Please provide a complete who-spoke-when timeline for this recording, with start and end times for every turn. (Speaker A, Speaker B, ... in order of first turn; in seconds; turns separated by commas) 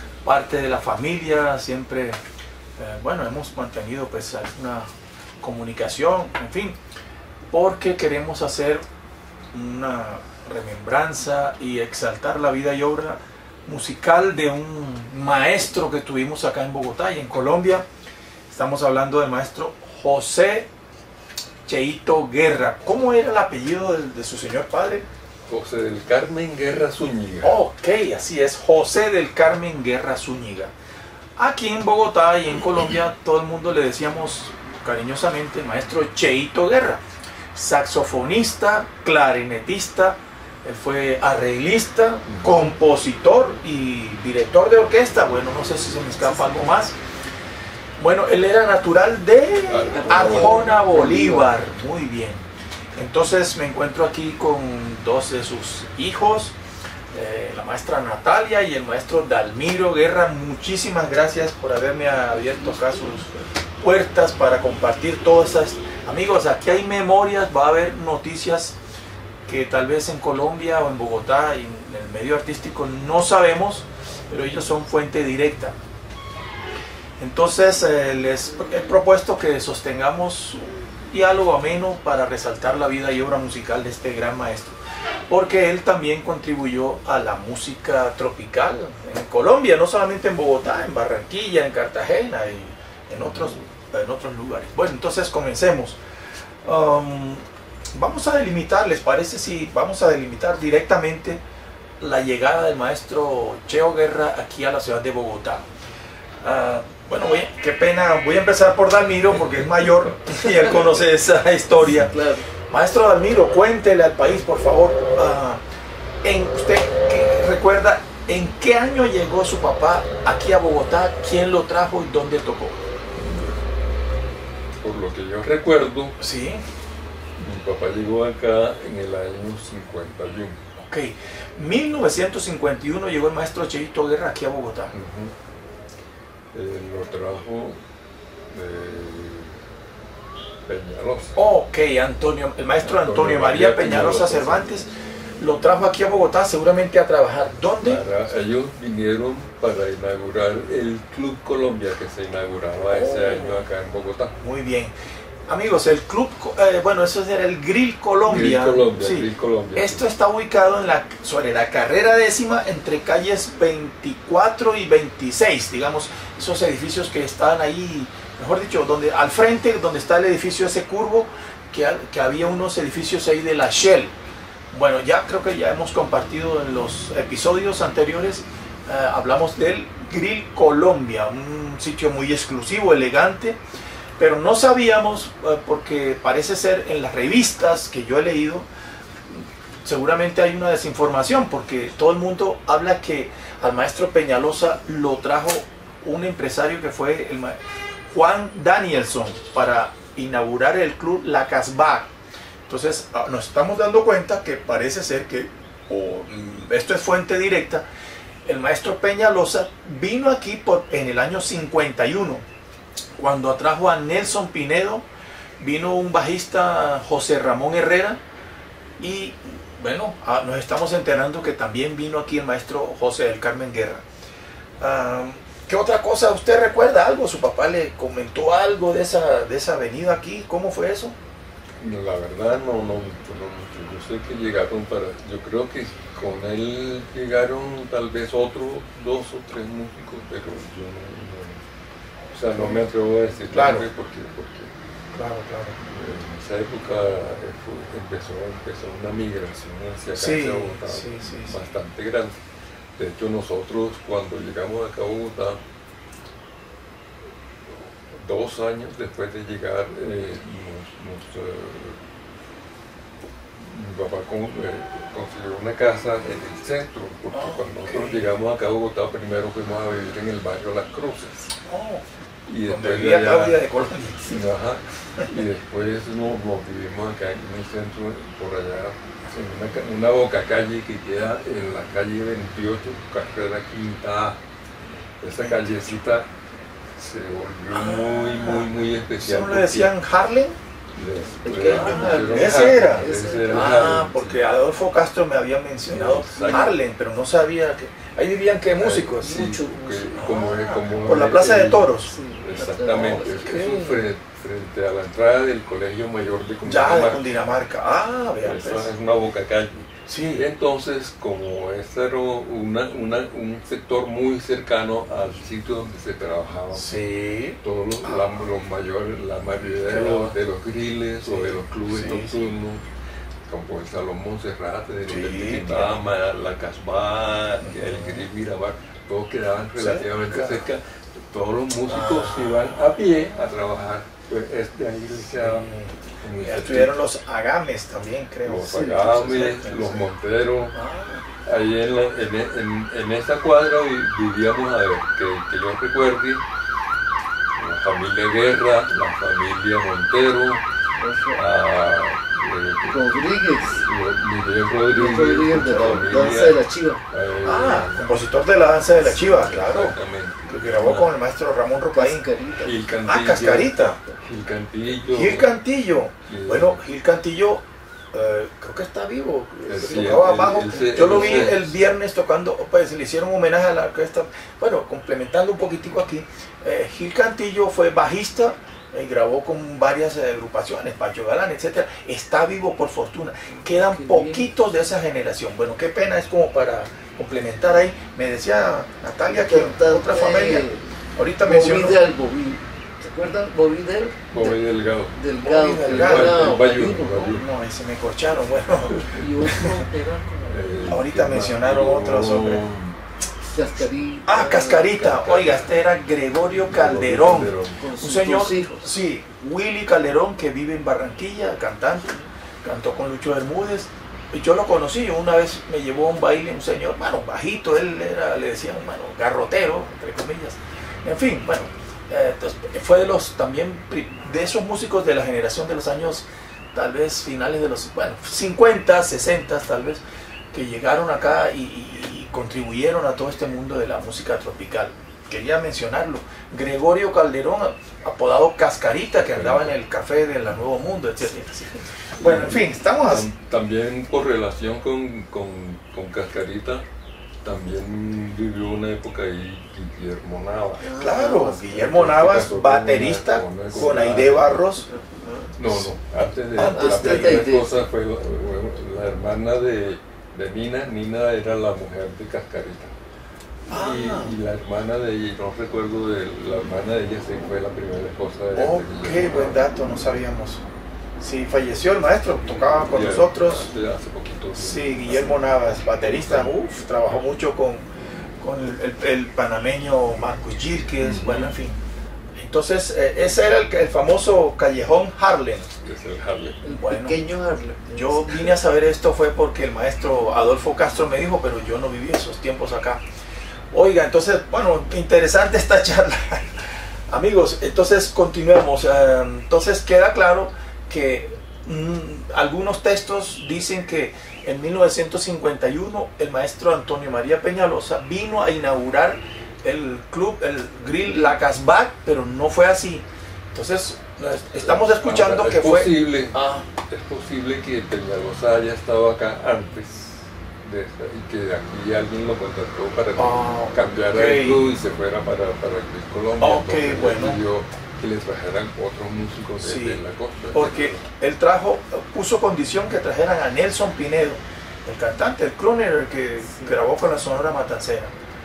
Speaker A: 0.2-2.2, Speaker A: 2.8-4.9, Speaker A: 5.4-6.8, Speaker A: 7.5-8.8, Speaker A: 9.5-17.8, Speaker A: 18.5-20.7, Speaker A: 21.6-25.1, Speaker B: 25.5-27.6, Speaker A: 27.4-30.7, Speaker A: 31.4-37.0, Speaker A: 37.5-47.0, Speaker B: 42.2-42.7, Speaker A: 48.0-56.5, Speaker B: 49.7-50.8, Speaker C: 49.9-51.6, Speaker A: 57.1-68.8, Speaker A: 69.5-75.8, Speaker A: 77.2-84.8, Speaker A: 85.3-96.0, Speaker B: 93.2-93.6, Speaker A: 96.6-101.4, Speaker A: 102.0-105.7, Speaker A: 106.4-112.2, Speaker C: 110.5-110.8, Speaker C: 111.9-112.4, Speaker A: 112.7-115.6, Speaker A: 116.2-122.8, Speaker B: 123.2-123.6, Speaker B: 124.8-126.2, Speaker A: 126.2-126.6, Speaker B: 127.4-130.6, Speaker A: 130.8-134.9, Speaker B: 134.9-135.3, Speaker B: 136.5-137.8, Speaker B: 138.5-139.6, Speaker B: 140.6-141.4, Speaker A: 141.3-148.0, Speaker B: 142.8-144.8, Speaker B: 147.8-154.3, Speaker A: 152.8-153.6, Speaker A: 154.4-154.9, Speaker A: 155.5-174.1, Speaker B: 158.2-160.0, Speaker A: 174.7-183.6, Speaker A: 184.2-188.7, Speaker A: 189.3-197.6, Speaker A: 198.1-202.1, Speaker A: 202.7-207.8, Speaker A: 208.4-212.4, Speaker A: 213.2-215.0, Speaker A: 215.6-218.2, Speaker A: 219.0-224.0, Speaker A: 224.8-231.1, Speaker B: 231.8-241.6, Speaker B: 242.3-244.7, Speaker A: 242.5-242.8, Speaker A: 243.5-243.9, Speaker A: 245.1-245.8, Speaker B: 245.8-252.4, Speaker A: 250.1-251.6, Speaker B: 252.9-255.6, Speaker B: 257.7-262.0, Speaker B: 263.6-271.5, Speaker A: 267.3-268.3, Speaker A: 271.6-272.0, Speaker B: 272.5-273.6, Speaker A: 272.6-274.5, Speaker B: 274.3-284.4, Speaker B: 285.2-286.3, Speaker A: 285.4-285.8, Speaker B: 287.0-289.9, Speaker A: 287.7-290.6, Speaker B: 290.9-294.4, Speaker C: 291.4-294.0, Speaker A: 291.6-299.4, Speaker B: 295.8-296.7, Speaker C: 296.3-296.7, Speaker B: 298.7-307.3, Speaker C: 299.2-300.4, Speaker A: 300.2-302.1, Speaker C: 302.0-303.5, Speaker A: 303.0-304.1, Speaker A: 306.6-308.9, Speaker B: 308.4-316.9, Speaker A: 310.1-310.4, Speaker A: 316.7-318.4, Speaker B: 317.6-322.8, Speaker A: 319.8-320.4, Speaker A: 321.2-322.4, Speaker B: 323.5-336.9, Speaker A: 325.0-326.0, Speaker A: 327.6-328.3, Speaker A: 329.8-330.6, Speaker A: 331.9-332.8, Speaker A: 335.3-340.1, Speaker B: 338.4-340.8, Speaker C: 338.6-339.9, Speaker A: 340.7-341.2, Speaker B: 341.4-346.4, Speaker B: 347.6-350.6, Speaker C: 351.0-351.4, Speaker B: 351.3-358.1, Speaker C: 352.9-353.9, Speaker C: 354.9-357.0, Speaker A: 357.4-362.2, Speaker C: 359.1-359.7, Speaker B: 359.1-361.1, Speaker C: 361.9-362.8, Speaker B: 362.6-365.5, Speaker A: 363.1-364.0, Speaker C: 363.7-364.2, Speaker A: 365.1-392.0, Speaker B: 366.3-366.8, Speaker B: 369.7-371.7, Speaker C: 369.8-371.6, Speaker C: 383.6-384.5, Speaker C: 389.3-390.9, Speaker C: 391.4-394.6, Speaker B: 394.3-395.2, Speaker C: 395.1-397.2, Speaker A: 395.4-399.8, Speaker B: 395.8-397.4, Speaker C: 399.0-400.8, Speaker B: 400.4-403.0, Speaker A: 400.9-402.6, Speaker C: 403.5-405.1, Speaker A: 404.2-430.0, Speaker B: 405.0-405.8, Speaker B: 406.5-407.8, Speaker C: 407.3-408.9, Speaker A: 430.5-443.3, Speaker B: 439.2-439.7, Speaker B: 442.2-446.9, Speaker B: 447.4-450.9, Speaker C: 450.8-451.8, Speaker A: 451.0-454.9, Speaker B: 451.7-454.6, Speaker C: 454.8-455.5, Speaker B: 455.6-462.9, Speaker A: 456.5-457.5, Speaker C: 456.6-457.8, Speaker A: 463.7-464.3, Speaker B: 463.7-469.6, Speaker A: 468.5-470.6, Speaker A: 471.2-473.7, Speaker B: 472.4-476.5, Speaker A: 474.5-477.9, Speaker A: 478.4-481.8, Speaker B: 481.0-481.5, Speaker A: 482.3-485.7, Speaker B: 485.8-486.6, Speaker C: 486.6-488.6, Speaker A: 486.7-487.2, Speaker A: 487.9-493.0, Speaker A: 493.7-516.7, Speaker B: 514.5-531.0, Speaker A: 523.1-524.7, Speaker A: 526.4-527.4, Speaker A: 529.6-530.0, Speaker A: 530.5-538.1